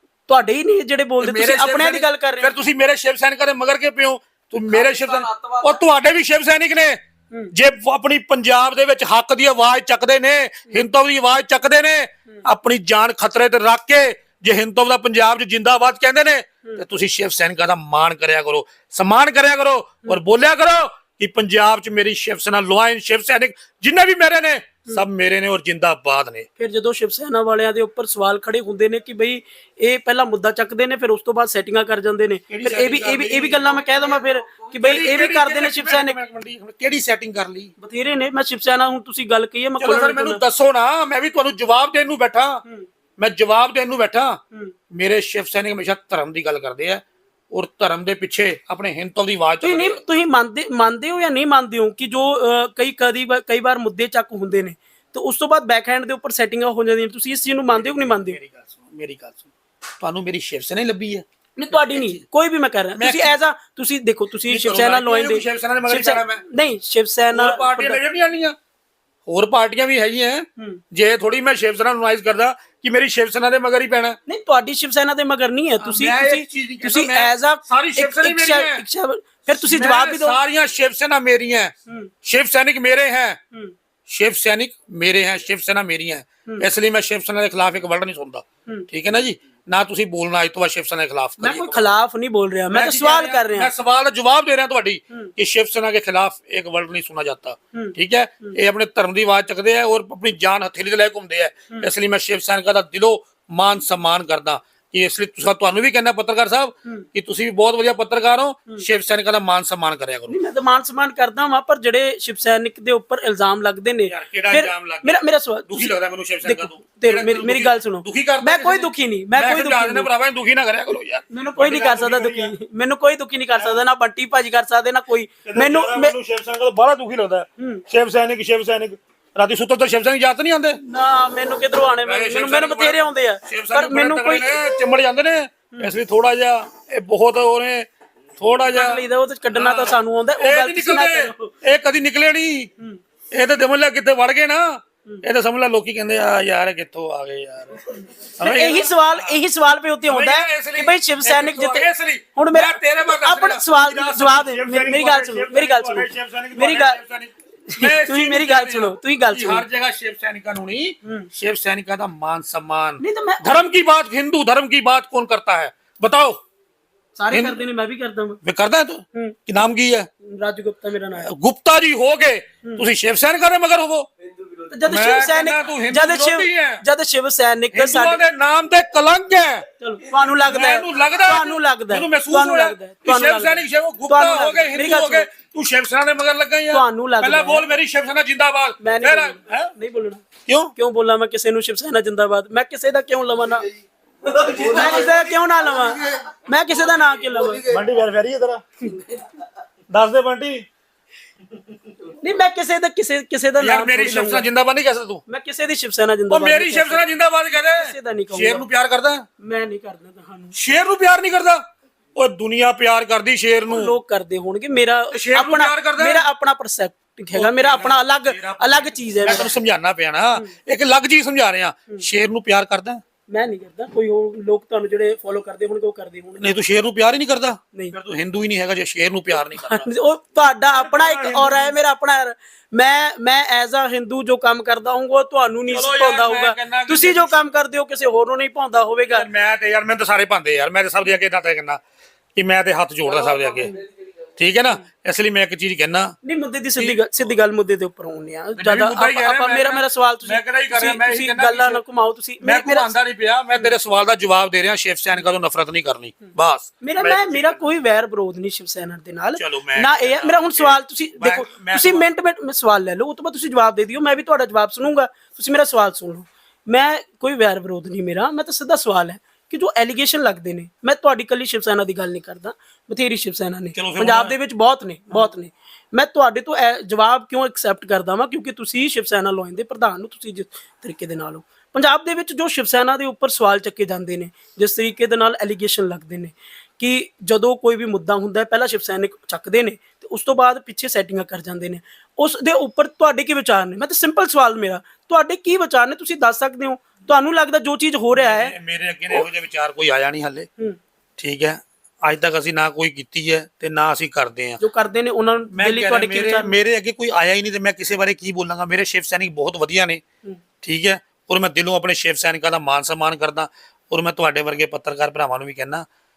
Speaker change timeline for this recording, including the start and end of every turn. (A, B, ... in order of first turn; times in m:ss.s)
0:00.3-0:02.5 A
0:01.2-0:07.0 B
0:04.7-0:05.8 A
0:07.5-0:26.5 B
0:26.6-0:36.2 A
0:32.5-0:37.7 B
0:37.8-0:40.4 A
0:39.8-0:42.6 B
0:43.2-0:44.4 B
0:44.9-0:50.0 B
0:49.6-0:58.4 A
0:57.7-1:02.2 B
1:01.6-1:08.0 A
1:03.0-1:03.4 B
1:04.4-1:06.4 B
1:07.3-1:08.5 B
1:09.3-1:14.2 B
1:14.3-1:20.4 A
1:15.8-1:18.8 B
1:19.5-1:21.7 B
1:22.2-1:23.4 B
1:24.1-1:31.8 B
1:31.4-1:33.7 A
1:32.7-1:50.4 B
1:37.7-1:38.6 A
1:50.3-1:55.9 A
1:54.1-2:02.5 B
1:56.4-2:00.1 A
2:01.3-2:06.1 A
2:03.6-2:03.8 B
2:05.4-2:10.8 B
2:07.6-2:07.8 A
2:10.8-2:14.6 A
2:12.0-2:19.0 B
2:18.7-2:21.5 A
2:19.5-2:22.7 B
2:23.3-2:29.4 B
2:28.4-2:37.0 A
2:30.0-2:46.4 B
2:37.7-2:39.6 A
2:43.0-2:43.6 A
2:47.2-2:48.4 A
2:47.3-2:47.6 B
2:48.4-2:50.1 B
2:50.2-2:51.3 A
2:51.2-2:54.1 B
2:54.7-2:58.2 A
2:54.8-2:56.8 B
2:57.7-2:59.6 B
2:59.8-3:05.3 A
3:00.2-3:09.7 B
3:06.7-3:07.6 A
3:08.8-3:10.2 A
3:10.5-3:10.7 B
3:10.8-3:13.7 A
3:14.4-3:17.7 A
3:17.6-3:18.6 B
3:18.8-3:19.2 A
3:19.9-3:20.7 B
3:22.2-3:24.4 A
3:23.6-3:25.2 B
3:25.3-3:27.1 A
3:26.3-3:29.2 B
3:27.7-3:28.6 A
3:29.4-3:30.5 A
3:30.5-3:31.6 B
3:32.2-3:33.9 B
3:33.7-3:39.5 A
3:35.1-3:36.2 B
3:37.3-3:43.0 B
3:43.3-3:46.5 A
3:46.4-3:49.9 B
3:49.6-3:59.3 A
3:50.7-3:51.7 B
3:55.7-3:57.4 B
3:59.1-4:01.8 B
4:02.3-4:03.7 B
4:04.4-4:06.2 B
4:06.2-4:12.9 A
4:08.6-4:11.8 B
4:12.4-4:17.7 B
4:16.8-4:58.5 A
4:19.4-4:22.1 B
4:33.7-4:34.3 B
4:58.1-5:00.5 B
5:01.2-5:04.6 B
5:04.6-5:06.5 A
5:05.5-5:10.0 B
5:10.6-5:15.8 B